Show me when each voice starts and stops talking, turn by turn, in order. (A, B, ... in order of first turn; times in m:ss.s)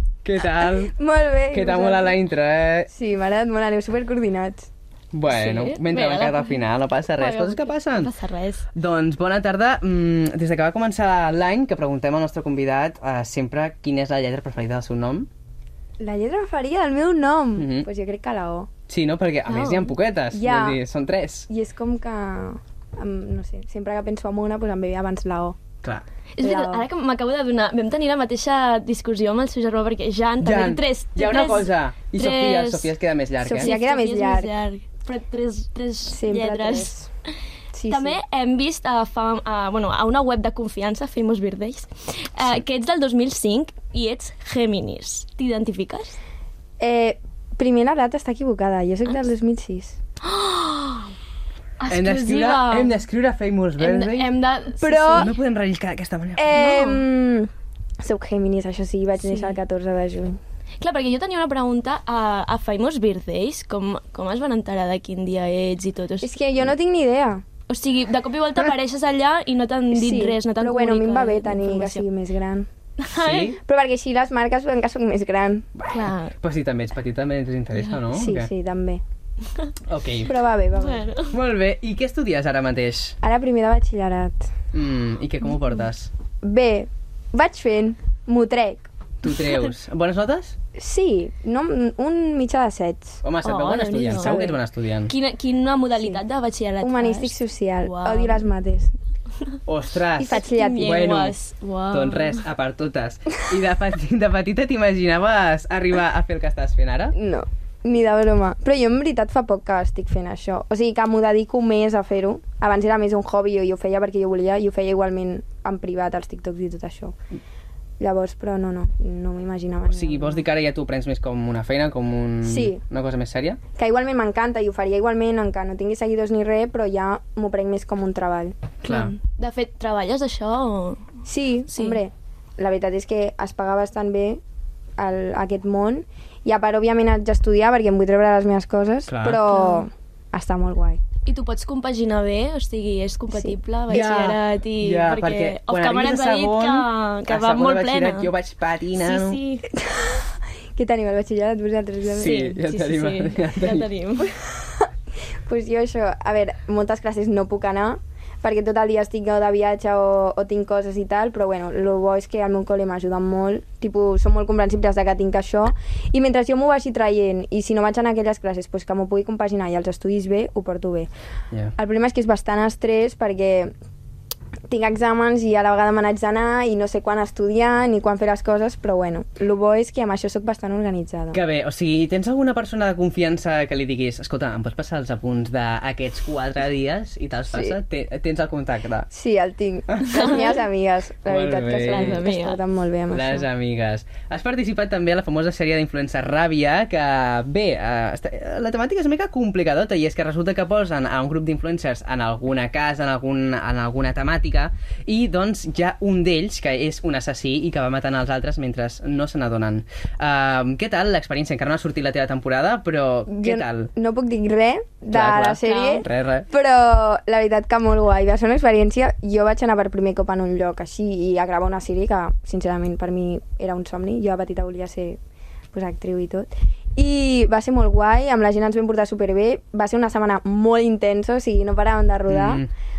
0:00.2-0:00.9 A
0:00.8-0:02.2 B
0:01.5-0:02.9 A
0:02.9-0:04.7 B
0:05.1-0:08.1 A
0:05.3-0:06.6 C
0:07.2-0:08.6 C
0:08.7-0:15.3 A
0:16.0-0:18.7 B
0:17.6-0:17.9 A
0:18.9-0:21.5 A
0:19.5-0:19.9 C
0:20.3-0:20.8 B
0:21.5-0:25.6 B
0:26.4-0:32.9 C
0:26.4-0:26.9 B
0:30.4-0:33.7 A
0:33.4-0:34.5 B
0:33.6-0:36.9 C
0:36.1-0:37.1 B
0:37.7-0:38.2 B
0:37.9-0:46.2 C
0:46.8-0:50.0 B
0:50.2-0:51.1 C
0:51.8-0:53.0 C
0:51.9-0:54.3 A
0:53.8-0:55.3 C
0:54.8-0:55.3 B
0:55.1-0:56.5 A
0:56.4-0:57.5 B
0:56.5-0:57.0 C
0:58.0-1:00.4 B
0:59.2-0:59.6 C
1:00.8-1:06.3 C
1:06.2-1:07.4 B
1:07.7-1:12.0 C
1:09.9-1:12.7 B
1:13.0-1:13.5 C
1:13.1-1:13.6 A
1:13.6-1:15.7 B
1:15.8-1:18.5 A
1:15.9-1:16.3 C
1:18.1-1:19.0 B
1:19.9-1:20.3 A
1:20.2-1:21.1 B
1:20.7-1:21.4 C
1:21.3-1:23.2 A
1:23.2-1:24.5 B
1:24.7-1:26.1 A
1:26.4-1:28.9 B
1:29.2-1:30.6 A
1:30.8-1:33.2 B
1:33.2-1:35.1 A
1:33.4-1:34.5 C
1:34.2-1:34.5 B
1:35.0-1:38.4 C
1:36.8-1:38.9 B
1:39.6-1:41.4 A
1:40.2-1:41.0 B
1:40.3-1:42.4 C
1:41.9-1:47.1 A
1:47.1-1:57.1 B
1:58.0-2:00.4 B
1:59.9-2:03.6 A
2:02.4-2:02.8 B
2:03.7-2:08.5 B
2:08.8-2:11.0 C
2:08.8-2:09.1 A
2:11.2-2:14.4 B
2:11.7-2:12.0 C
2:15.0-2:21.0 B
2:19.1-2:19.4 A
2:19.5-2:19.8 C
2:21.2-2:28.3 C
2:23.3-2:23.6 B
2:23.9-2:29.4 A
2:29.0-2:29.6 C
2:29.7-2:32.3 B
2:32.1-2:33.9 A
2:32.1-2:34.3 C
2:34.2-2:34.9 B
2:35.4-2:51.1 B
2:51.8-2:53.7 B
2:54.7-3:01.4 B
3:01.3-3:09.1 A
3:09.1-3:13.4 B
3:09.9-3:10.3 A
3:10.0-3:10.6 C
3:11.3-3:12.2 A
3:11.8-3:12.6 C
3:13.1-3:33.9 A
3:33.3-3:45.2 B
3:35.1-3:36.5 A
3:35.6-3:36.0 C
3:45.7-3:52.6 B
3:52.3-3:52.7 A